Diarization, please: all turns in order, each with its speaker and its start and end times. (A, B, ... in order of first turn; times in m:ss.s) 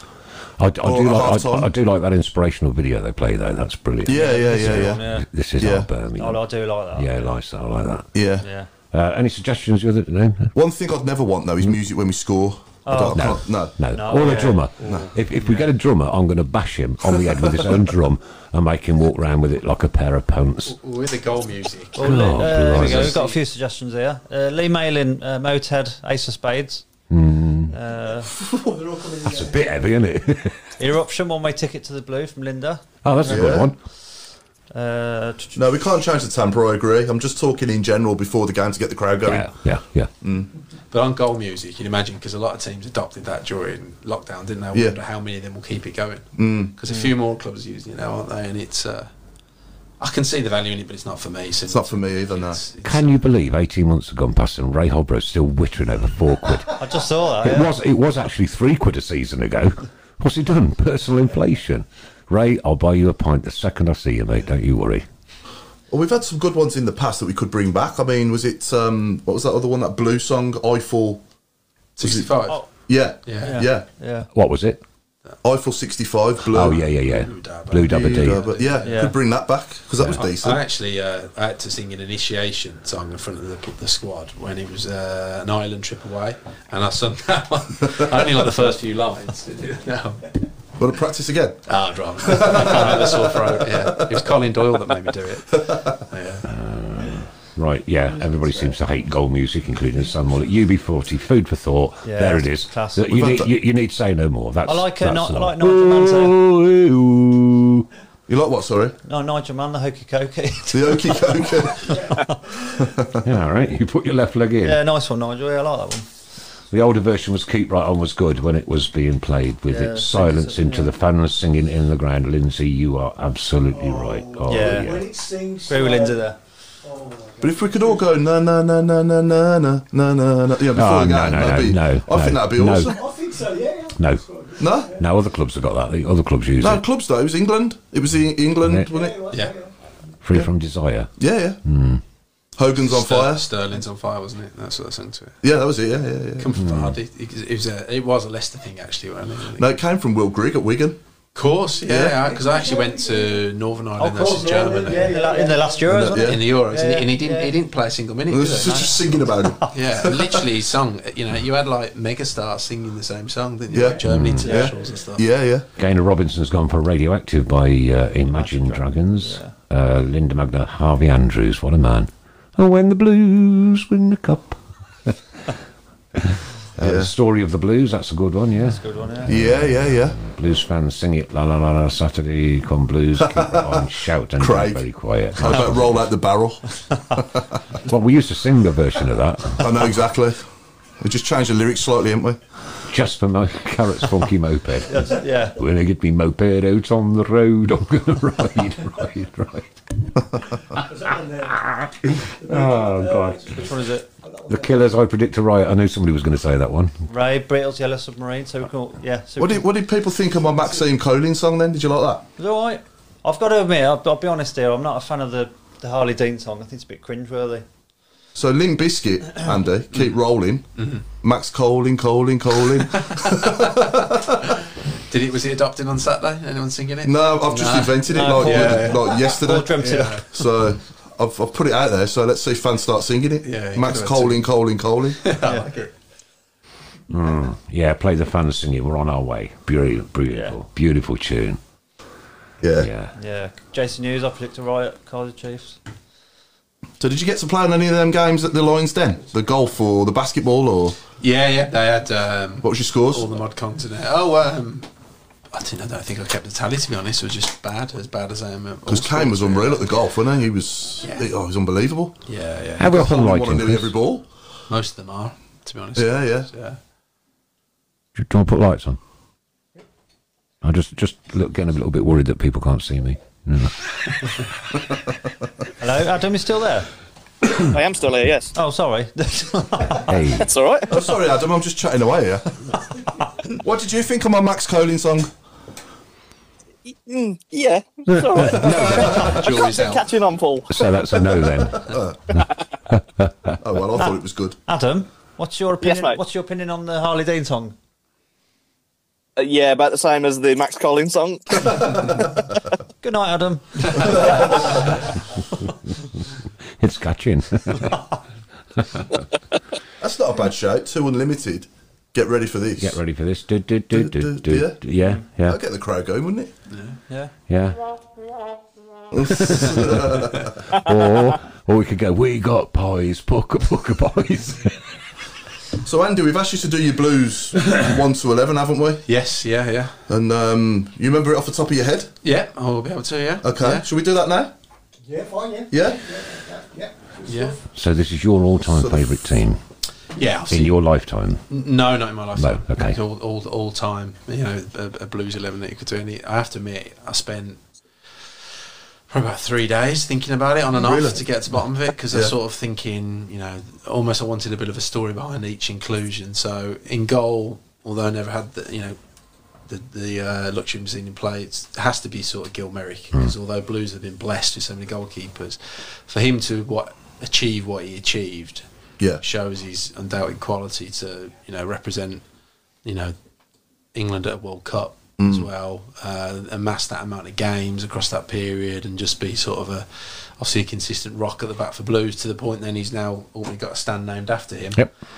0:00.6-0:08.1 A
0:00.8-0:01.7 B
0:04.0-0:05.0 B
0:04.1-0:05.2 C
0:05.6-0:05.9 B
0:06.2-0:07.3 C
0:08.1-0:08.5 B
0:08.4-0:08.7 C
0:08.9-0:10.5 A
0:10.5-0:13.7 B
0:12.8-0:15.1 C
0:13.1-0:20.8 A
0:14.8-0:15.1 B
0:14.8-0:15.7 D
0:17.2-0:17.7 B
0:20.6-0:23.4 D
0:22.0-0:26.8 C
0:22.0-0:23.2 A
0:27.1-0:27.7 A
0:27.7-0:28.3 C
0:28.4-0:29.8 E
0:29.2-0:30.7 A
0:30.8-0:33.6 C
0:33.0-0:33.8 A
0:33.2-0:33.7 B
0:34.7-0:35.7 C
0:35.5-0:39.5 B
0:39.2-0:40.1 A
0:40.2-0:40.5 B
0:40.9-0:49.1 D
0:46.4-0:46.7 B
0:50.0-0:53.2 D
0:51.7-0:52.6 B
0:52.8-0:56.8 A
0:56.8-0:57.7 C
0:57.4-1:05.0 A
1:05.9-1:11.2 B
1:12.0-1:12.6 D
1:12.0-1:13.9 B
1:13.2-1:13.6 D
1:13.4-1:14.3 C
1:14.3-1:14.8 A
1:15.4-1:16.8 B
1:16.5-1:18.4 A
1:16.8-1:19.1 D
1:17.8-1:20.6 B
1:18.8-1:19.2 C
1:20.0-1:30.4 D
1:30.8-1:34.4 B
1:31.7-1:36.5 D
1:35.6-1:36.0 B
1:36.4-1:47.9 A
1:42.0-1:43.1 C
1:43.1-1:43.5 B
1:44.6-1:46.4 C
1:48.3-1:49.0 B
1:49.0-1:52.4 C
1:50.7-1:52.0 B
1:51.9-1:52.1 E
1:52.6-1:53.2 B
1:53.2-1:54.8 A
1:54.6-1:56.1 C
1:56.7-2:05.1 A
1:59.7-2:01.0 C
2:03.7-2:08.1 E
2:04.5-2:05.0 C
2:05.7-2:06.4 C
2:07.4-2:13.0 B
2:10.7-2:13.0 A
2:12.8-2:15.0 E
2:14.0-2:16.8 A
2:14.6-2:14.9 B
2:16.6-2:19.2 B
2:18.6-2:18.9 A
2:18.8-2:19.7 E
2:20.2-2:22.0 A
2:21.2-2:21.6 B
2:22.6-2:23.5 B
2:22.8-2:25.4 D
2:25.4-2:26.6 B
2:26.4-2:29.7 D
2:26.6-2:27.0 A
2:29.6-2:31.0 B
2:31.3-2:35.2 D
2:31.8-2:32.2 B
2:32.1-2:33.5 E
2:34.0-2:37.6 C
2:34.1-2:36.0 E
2:35.9-2:36.5 B
2:36.0-2:39.0 D
2:38.3-2:40.4 B
2:38.6-2:39.7 C
2:39.7-2:45.3 D
2:43.7-2:45.6 B
2:44.0-2:44.5 A
2:44.4-2:44.7 C
2:45.8-2:55.1 A
2:48.3-2:49.5 C
2:56.2-3:06.1 A
2:56.8-2:57.1 B
2:58.6-2:59.4 C
2:59.2-3:00.2 B
3:03.2-3:07.6 B
3:07.8-3:09.9 A
3:09.6-3:10.5 B
3:11.0-3:12.4 B
3:12.9-3:19.7 A
3:14.9-3:15.6 C
3:20.7-3:21.7 E
3:21.5-3:23.6 A
3:22.2-3:24.9 E
3:23.6-3:24.1 C
3:24.5-3:27.0 A
3:27.1-3:29.7 C
3:29.4-3:32.3 B
3:32.4-3:37.6 C
3:38.3-3:44.5 B
3:40.8-3:41.0 D
3:43.0-3:43.9 D
3:45.0-3:50.3 D
3:47.0-3:55.3 B
3:48.1-3:50.3 C
3:53.4-3:54.5 D
3:55.2-3:55.9 D
3:55.4-3:55.7 C
3:57.1-4:01.6 A
4:00.3-4:00.6 C
4:02.6-4:02.9 B
4:02.8-4:03.1 A
4:03.1-4:05.8 C
4:07.0-4:11.0 B
4:11.2-4:14.9 D
4:12.6-4:13.3 B
4:15.5-4:20.0 D
4:18.8-4:22.2 B
4:21.0-4:21.3 D
4:22.2-4:23.1 D
4:22.8-4:24.0 A
4:22.8-4:24.3 B
4:24.7-4:26.8 D
4:25.9-4:26.5 B
4:28.2-4:29.0 A
4:30.6-4:34.4 A
4:35.8-4:36.9 C
4:37.6-4:38.5 F
4:38.5-4:40.3 C
4:40.1-4:40.5 A
4:40.3-4:41.0 F
4:40.8-4:42.8 B
4:43.4-4:45.3 B
4:46.9-4:50.9 F
4:48.1-4:49.4 A
4:48.4-4:50.2 D
4:48.5-4:49.7 B
4:50.7-4:53.3 A
4:51.8-4:52.1 B
4:53.6-4:54.6 B
4:54.7-4:57.8 C
4:55.8-4:56.2 F
4:59.4-5:02.2 F
5:03.0-5:04.8 C
5:06.8-5:08.0 A
5:10.0-5:13.0 B
5:12.8-5:15.6 A
5:13.9-5:16.5 B
5:16.7-5:17.0 D
5:17.5-5:17.8 A
5:19.1-5:20.6 B
5:19.3-5:24.8 A
5:20.2-5:20.5 D
5:25.8-5:29.0 B
5:29.0-5:30.0 D
5:30.1-5:32.1 B
5:32.2-5:33.9 D
5:33.4-5:34.5 B
5:35.0-5:37.6 E
5:35.7-5:36.0 B
5:37.2-5:37.6 D
5:37.7-5:39.6 A
5:38.6-5:39.1 B
5:40.1-5:40.8 D
5:40.5-5:41.5 A
5:41.5-5:47.6 D
5:42.3-5:43.0 A
5:49.1-5:59.0 D
5:50.7-5:51.3 B
5:52.1-5:52.3 B
5:59.6-6:08.6 D
6:09.2-6:12.2 D
6:12.8-6:13.1 D
6:13.9-6:24.9 D
6:15.2-6:15.5 B